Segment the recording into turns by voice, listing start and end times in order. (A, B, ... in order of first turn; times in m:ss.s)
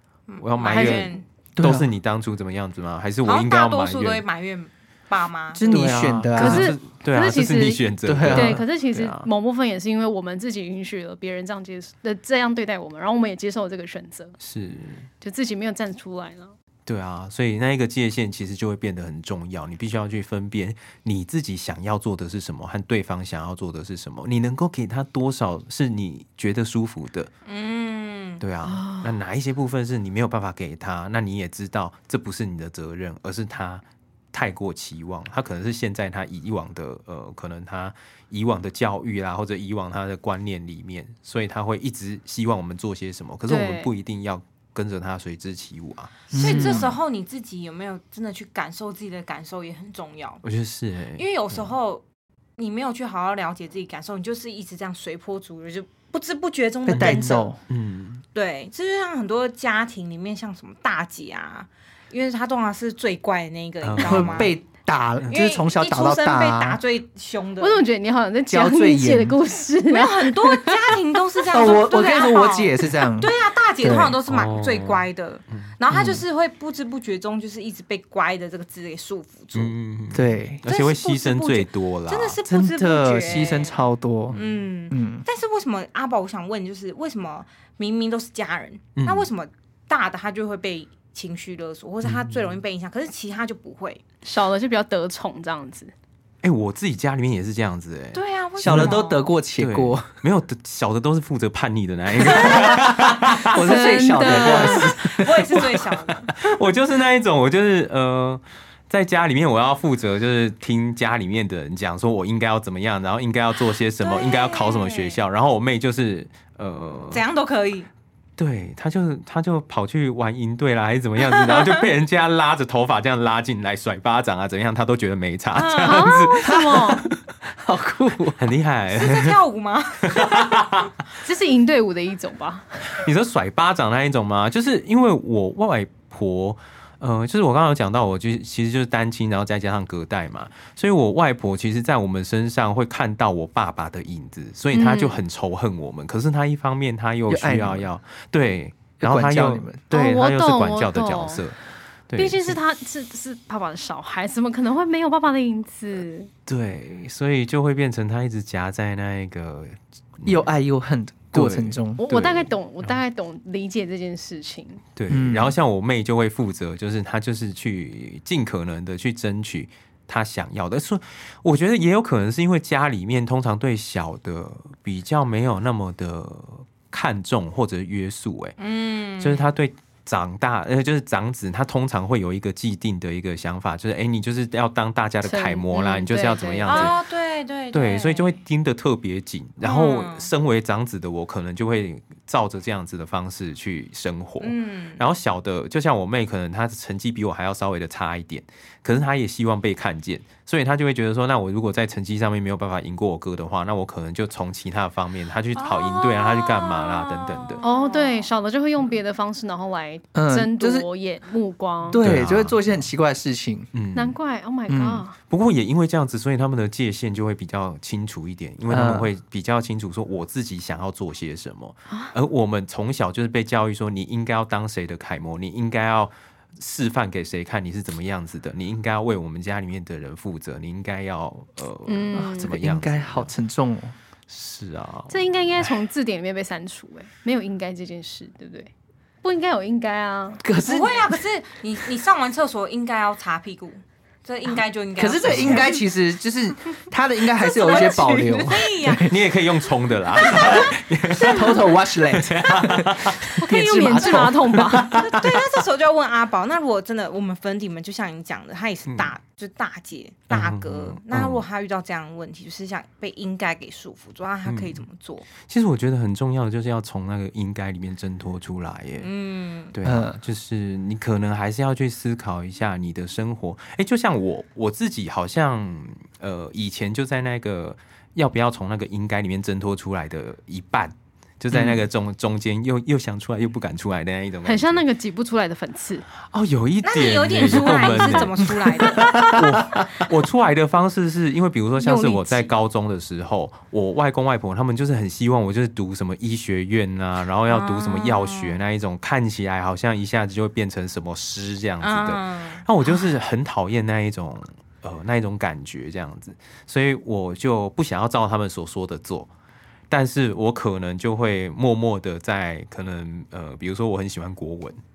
0:00.3-0:01.2 A
0:00.4-0:04.2 B
0:00.7-0:01.1 C
0:01.6-0:01.9 D
0:03.2-0:05.6 A
0:05.5-0:06.8 D
0:05.6-0:09.3 B
0:06.4-0:14.4 C
0:08.1-0:08.6 D
0:14.4-0:15.1 B
0:15.2-0:16.5 C
0:16.9-0:27.3 B
0:27.5-0:28.4 A
0:28.4-0:46.9 B
0:28.7-0:29.1 C
0:43.5-0:43.9 C
0:46.3-0:46.9 D
0:46.3-0:50.4 A
0:50.4-0:51.7 B
0:51.2-0:52.0 A
0:52.6-0:57.5 A
0:56.9-0:57.6 D
0:56.9-0:58.2 B
0:58.3-1:04.5 A
1:03.8-1:04.5 B
1:04.0-1:06.8 D
1:05.3-1:07.8 A
1:07.6-1:11.0 C
1:08.5-1:09.4 D
1:09.9-1:19.8 A
1:11.5-1:14.2 D
1:14.3-1:16.2 B
1:19.6-1:22.4 B
1:20.1-1:20.6 D
1:20.7-1:23.8 A
1:22.5-1:24.4 D
1:24.3-1:24.6 B
1:24.3-1:34.0 A
1:24.9-1:25.2 D
1:29.0-1:29.3 B
1:32.0-1:32.6 B
1:34.2-1:35.9 C
1:36.4-1:39.0 B
1:38.1-1:39.3 A
1:38.6-1:40.1 D
1:39.6-1:44.4 B
1:42.2-1:45.9 D
1:43.5-1:44.9 C
1:44.2-1:46.3 A
1:46.4-1:57.2 B
1:54.0-1:55.2 A
1:57.1-1:57.9 A
1:58.4-2:07.2 B
2:01.4-2:01.7 A
2:05.5-2:06.2 A
2:05.8-2:07.0 C
2:06.4-2:08.4 D
2:08.4-2:09.4 B
2:08.9-2:10.9 A
2:10.1-2:10.9 B
2:11.2-2:12.8 C
2:13.0-2:31.6 B
2:24.7-2:25.2 C
2:27.3-2:27.9 D
2:29.0-2:29.8 D
2:29.9-2:31.4 C
2:32.1-2:32.6 B
2:32.2-2:36.3 C
2:36.5-2:40.5 B
2:40.2-2:42.0 D
2:41.3-2:43.0 B
2:42.0-2:44.8 C
2:45.0-2:58.6 B
2:45.1-2:45.6 D
2:58.6-2:59.4 A
2:59.2-3:07.0 B
3:05.2-3:07.0 C
3:06.7-3:08.4 A
3:07.7-3:27.6 B
3:09.6-3:10.3 A
3:14.4-3:15.0 A
3:25.6-3:28.3 A
3:27.6-3:32.0 C
3:30.2-3:30.9 D
3:31.9-3:33.7 D
3:32.0-3:32.8 B
3:33.7-3:34.2 B
3:34.0-3:35.2 C
3:34.7-3:35.0 D
3:35.3-3:53.3 B
3:38.7-3:39.1 D
3:51.9-3:52.6 C
3:52.1-3:54.0 D
3:54.3-3:55.8 B
3:55.1-3:58.7 C
3:59.2-4:00.4 C
4:00.4-4:01.2 D
4:00.6-4:05.8 A
4:05.0-4:09.2 D
4:05.3-4:05.6 B
4:07.3-4:09.2 A
4:09.0-4:13.4 B
4:10.2-4:11.9 A
4:10.3-4:15.2 D
4:13.4-4:15.0 C
4:14.5-4:14.8 B
4:14.9-4:25.3 A
4:18.9-4:19.1 B
4:20.3-4:21.4 B
4:24.5-4:24.8 B
4:25.4-4:29.1 B
4:29.0-4:29.7 A
4:29.7-4:44.8 B
4:29.8-4:30.2 D
4:41.5-4:41.8 D
4:44.4-4:46.1 C
4:46.3-5:09.3 B
4:46.8-4:49.5 A
4:48.9-4:49.8 D
4:51.8-4:52.5 C
4:57.5-4:58.6 A
5:01.8-5:03.0 A
5:09.9-5:14.8 B